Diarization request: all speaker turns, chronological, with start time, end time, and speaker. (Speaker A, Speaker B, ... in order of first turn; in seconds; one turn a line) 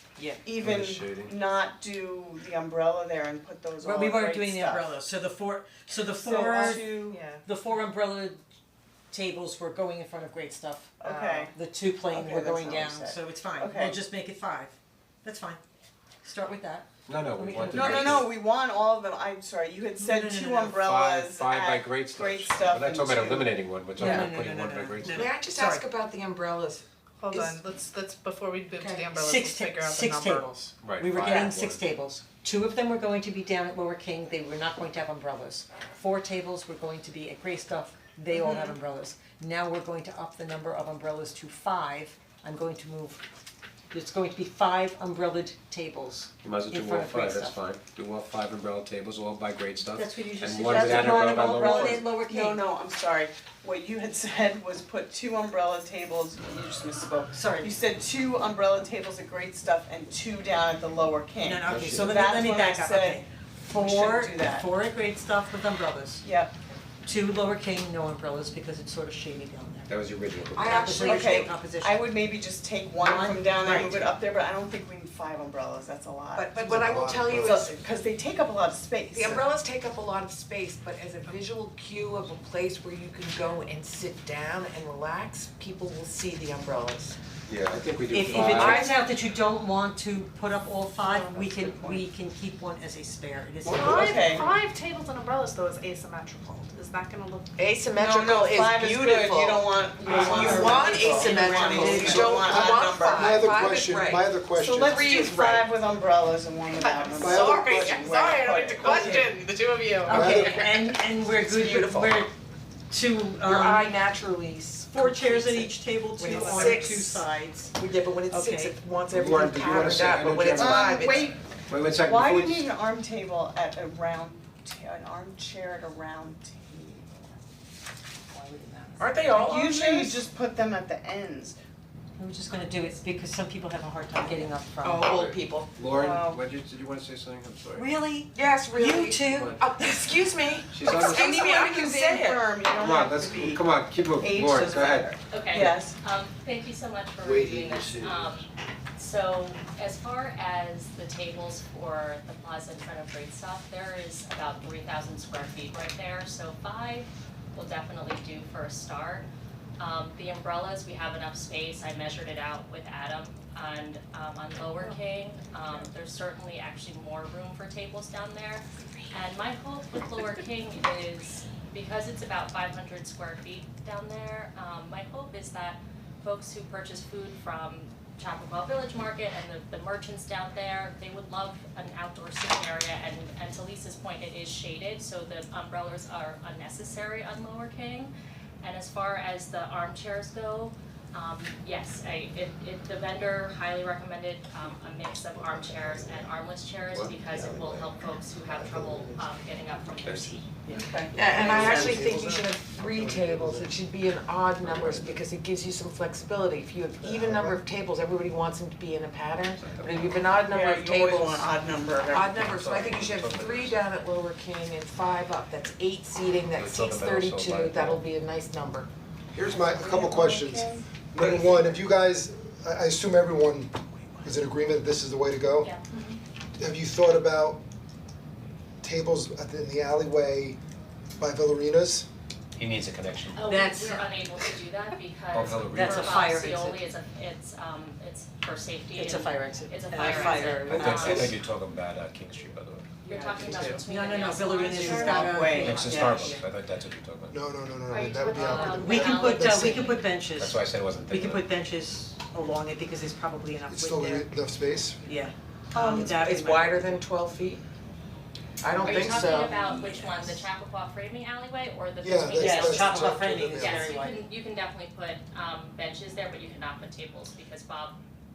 Speaker A: 0.4-4.9
Speaker B: 0.6-1.3
Speaker C: 3.8-8.4
Speaker A: 6.2-7.2
Speaker D: 6.3-7.4
Speaker C: 9.1-15.6
Speaker A: 11.0-11.5
Speaker A: 12.1-14.0
Speaker C: 16.2-18.3
Speaker B: 17.1-18.3
Speaker A: 17.7-23.5
Speaker C: 20.0-20.8
Speaker B: 20.7-25.3
Speaker C: 24.0-25.9
Speaker E: 25.0-27.5
Speaker D: 27.2-30.7
Speaker C: 29.1-43.2
Speaker B: 30.8-31.8
Speaker A: 38.3-38.7
Speaker C: 43.9-47.5
Speaker B: 46.4-52.0
Speaker C: 49.8-52.6
Speaker A: 50.7-64.7
Speaker C: 57.3-57.7
Speaker C: 61.4-66.2
Speaker B: 61.6-62.1
Speaker A: 66.2-66.5
Speaker C: 67.0-69.9
Speaker B: 69.9-71.1
Speaker E: 70.5-71.3
Speaker C: 70.6-72.1
Speaker A: 71.0-76.6
Speaker C: 73.0-74.1
Speaker E: 76.3-77.8
Speaker F: 76.6-77.7
Speaker A: 77.4-79.5
Speaker E: 79.1-87.2
Speaker B: 87.5-88.9
Speaker C: 88.1-94.4
Speaker E: 88.5-89.0
Speaker A: 91.0-92.0
Speaker A: 93.6-94.5
Speaker D: 93.7-97.5
Speaker E: 97.6-105.7
Speaker A: 97.9-103.5
Speaker C: 100.1-102.2
Speaker F: 103.1-105.2
Speaker A: 104.5-109.4
Speaker D: 106.7-110.5
Speaker F: 107.1-107.8
Speaker C: 110.0-112.3
Speaker F: 110.1-110.7
Speaker C: 112.9-114.0
Speaker E: 113.4-117.2
Speaker C: 114.9-117.8
Speaker E: 117.8-121.2
Speaker C: 118.3-118.8
Speaker B: 119.1-122.7
Speaker A: 120.5-127.4
Speaker E: 128.3-130.2
Speaker A: 129.2-131.6
Speaker C: 132.2-135.1
Speaker E: 134.8-135.5
Speaker B: 134.9-137.9
Speaker A: 135.5-136.4
Speaker C: 137.8-139.6
Speaker E: 138.3-142.5
Speaker B: 139.3-139.6
Speaker B: 140.7-141.4
Speaker A: 140.9-146.0
Speaker B: 142.8-145.7
Speaker G: 145.3-159.3
Speaker F: 147.2-148.3
Speaker G: 159.8-200.5
Speaker F: 195.5-196.3
Speaker B: 196.9-197.7
Speaker F: 197.3-197.9
Speaker F: 198.5-199.2
Speaker B: 200.0-200.4
Speaker A: 200.7-201.8
Speaker E: 201.1-211.5
Speaker F: 201.2-203.8
Speaker B: 204.6-205.2
Speaker F: 207.0-207.6
Speaker B: 209.6-210.4
Speaker A: 210.4-212.5
Speaker E: 212.1-218.9
Speaker B: 212.3-213.8
Speaker B: 216.6-218.0
Speaker F: 219.3-225.7
Speaker A: 219.5-220.9
Speaker F: 226.6-227.6
Speaker F: 228.8-230.6
Speaker F: 231.2-232.1
Speaker B: 232.6-233.5
Speaker G: 233.3-241.3
Speaker C: 233.4-234.1
Speaker B: 235.3-236.3
Speaker C: 235.7-236.9
Speaker C: 238.9-241.3
Speaker B: 240.5-242.9
Speaker G: 243.0-245.6
Speaker A: 243.1-243.8
Speaker C: 243.9-246.4
Speaker A: 244.6-246.4
Speaker B: 245.5-247.4
Speaker F: 247.3-249.9
Speaker G: 247.9-250.0
Speaker C: 248.6-254.3
Speaker B: 250.3-251.5
Speaker F: 253.7-255.0
Speaker C: 255.0-257.0
Speaker E: 255.7-257.6
Speaker E: 258.6-260.0
Speaker G: 258.8-268.0
Speaker F: 262.0-263.9
Speaker C: 262.3-264.2